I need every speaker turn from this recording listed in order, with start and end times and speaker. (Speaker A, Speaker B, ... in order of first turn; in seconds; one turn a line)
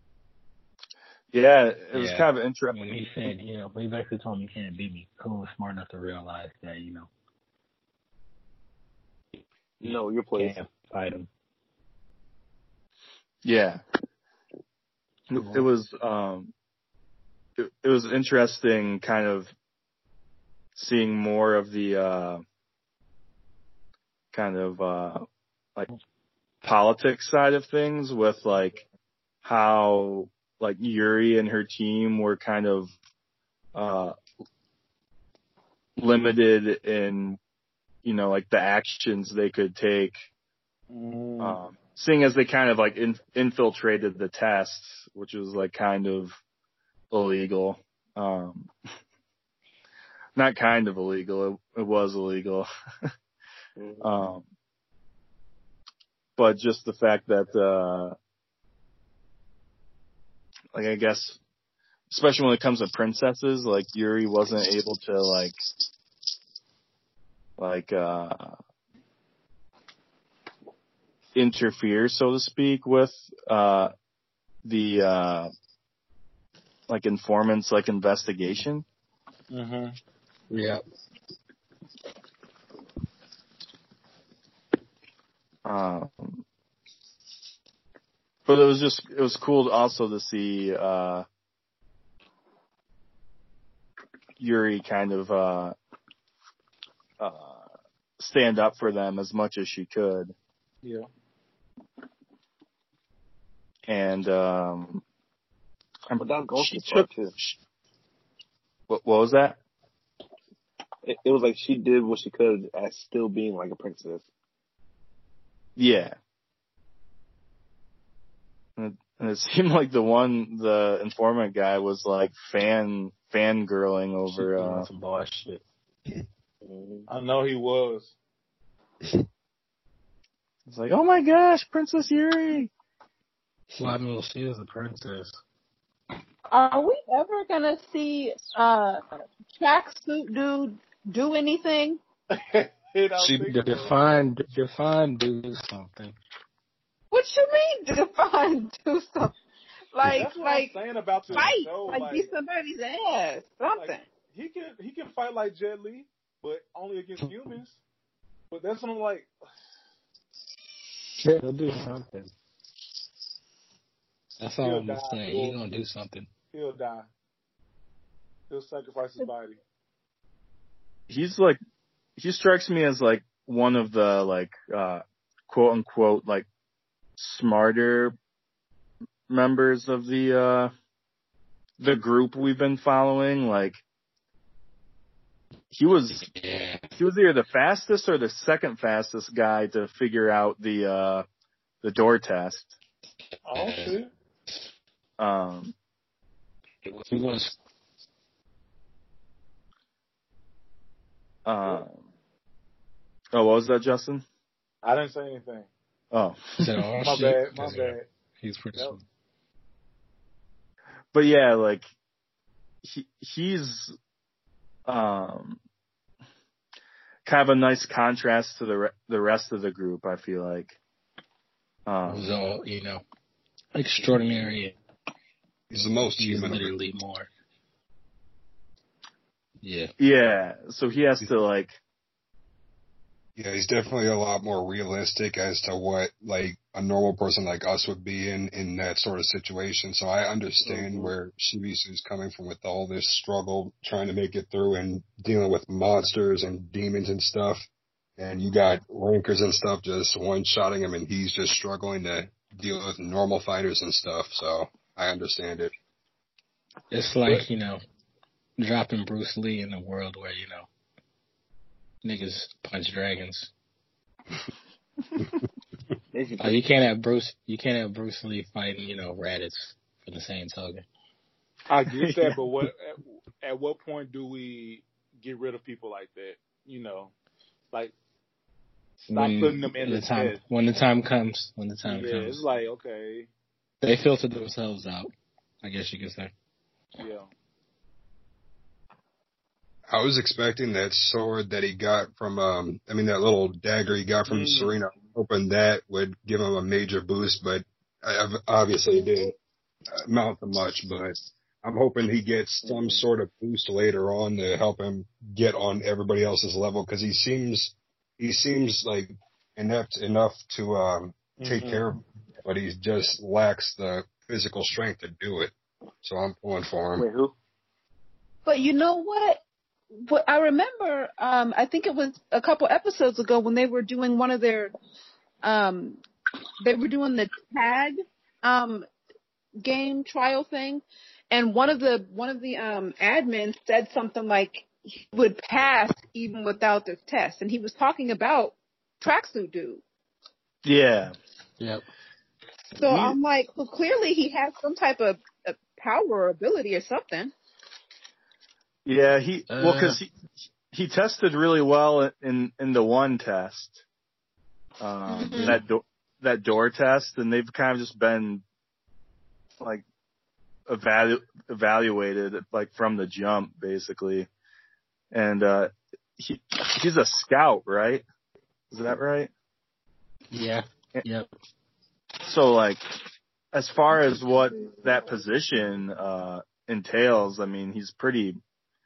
Speaker A: 1.3-2.8
Speaker B: 1.9-7.1
Speaker C: 9.8-10.6
Speaker B: 9.9-11.3
Speaker A: 13.4-13.8
Speaker A: 15.3-16.5
Speaker B: 15.4-15.7
Speaker A: 17.6-19.5
Speaker A: 20.8-22.4
Speaker A: 24.3-25.9
Speaker A: 26.6-28.9
Speaker A: 29.4-32.9
Speaker A: 33.7-34.2
Speaker A: 36.0-37.4
Speaker A: 38.0-40.2
Speaker D: 40.9-41.6
Speaker A: 41.4-46.4
Speaker A: 47.1-48.7
Speaker A: 50.4-52.7
Speaker C: 53.8-54.1
Speaker A: 54.0-54.5
Speaker A: 56.4-58.2
Speaker A: 60.7-61.4
Speaker A: 62.1-65.6
Speaker A: 67.6-68.6
Speaker A: 71.3-73.9
Speaker A: 74.6-75.5
Speaker A: 76.9-78.8
Speaker D: 79.5-80.0
Speaker B: 80.5-80.8
Speaker A: 85.7-86.4
Speaker A: 88.5-91.2
Speaker A: 94.4-95.8
Speaker A: 97.2-97.6
Speaker A: 98.2-100.3
Speaker D: 100.8-101.1
Speaker A: 103.9-105.0
Speaker A: 106.1-107.6
Speaker C: 106.2-107.3
Speaker A: 108.9-109.6
Speaker C: 111.0-114.2
Speaker A: 115.8-116.2
Speaker A: 118.8-124.9
Speaker B: 124.3-125.6
Speaker C: 126.6-127.1
Speaker D: 127.1-128.1
Speaker A: 130.7-132.7
Speaker B: 133.7-135.4
Speaker E: 136.5-139.0
Speaker E: 139.6-142.0
Speaker D: 142.3-144.0
Speaker F: 143.2-143.5
Speaker B: 143.5-146.2
Speaker E: 147.1-149.3
Speaker E: 149.9-150.8
Speaker D: 150.1-152.3
Speaker E: 151.3-154.1
Speaker D: 153.7-157.8
Speaker D: 158.5-159.3
Speaker B: 161.2-162.3
Speaker B: 164.4-166.3
Speaker D: 164.6-165.6
Speaker D: 166.5-167.1
Speaker D: 168.5-169.6
Speaker A: 171.1-171.6
Speaker A: 172.2-176.5
Speaker A: 177.2-178.2
Speaker A: 179.3-180.7
Speaker A: 181.8-183.8
Speaker A: 185.7-186.3
Speaker B: 186.2-186.9
Speaker A: 187.0-191.2
Speaker A: 191.8-192.7
Speaker D: 193.4-194.1
Speaker B: 193.5-194.0
Speaker A: 195.2-195.7
Speaker B: 196.8-197.6
Speaker A: 201.4-202.1
Speaker A: 203.3-204.2
Speaker D: 204.8-205.7
Speaker A: 206.1-206.6
Speaker B: 206.6-209.0
Speaker D: 207.0-208.1
Speaker A: 211.1-211.9
Speaker A: 212.8-214.0
Speaker A: 214.9-215.6
Speaker A: 217.2-220.8
Speaker A: 221.9-222.3
Speaker B: 222.1-223.0
Speaker B: 223.8-224.8
Speaker F: 225.7-226.8
Speaker B: 225.8-227.3
Speaker B: 229.6-229.9
Speaker A: 230.0-231.8
Speaker F: 233.4-247.7
Speaker C: 240.6-241.1
Speaker F: 248.2-255.7
Speaker B: 256.9-257.8
Speaker B: 258.6-260.7
Speaker B: 262.0-263.5
Speaker C: 266.1-266.7
Speaker B: 266.4-270.8
Speaker D: 271.7-277.1
Speaker A: 271.9-272.4
Speaker B: 279.0-282.4
Speaker D: 279.1-280.4
Speaker D: 281.8-283.3
Speaker B: 283.8-285.1
Speaker B: 285.6-286.3
Speaker D: 287.0-287.3
Speaker F: 289.9-299.4
Speaker D: 294.3-294.7
Speaker F: 299.9-317.1
Speaker C: 302.6-303.0
Speaker D: 311.4-311.8
Speaker C: 317.0-317.3
Speaker E: 318.5-319.4
Speaker E: 320.0-324.7
Speaker E: 325.4-326.0
Speaker E: 326.6-328.9
Speaker E: 329.6-339.8
Speaker A: 340.6-341.1
Speaker E: 342.8-347.3
Speaker A: 348.9-350.1
Speaker B: 349.5-350.0
Speaker A: 350.7-353.8
Speaker A: 354.8-358.4
Speaker E: 355.1-355.6
Speaker A: 360.7-364.3
Speaker A: 365.1-368.0
Speaker A: 368.7-369.3
Speaker B: 370.3-371.3
Speaker A: 372.2-372.9
Speaker A: 373.5-378.4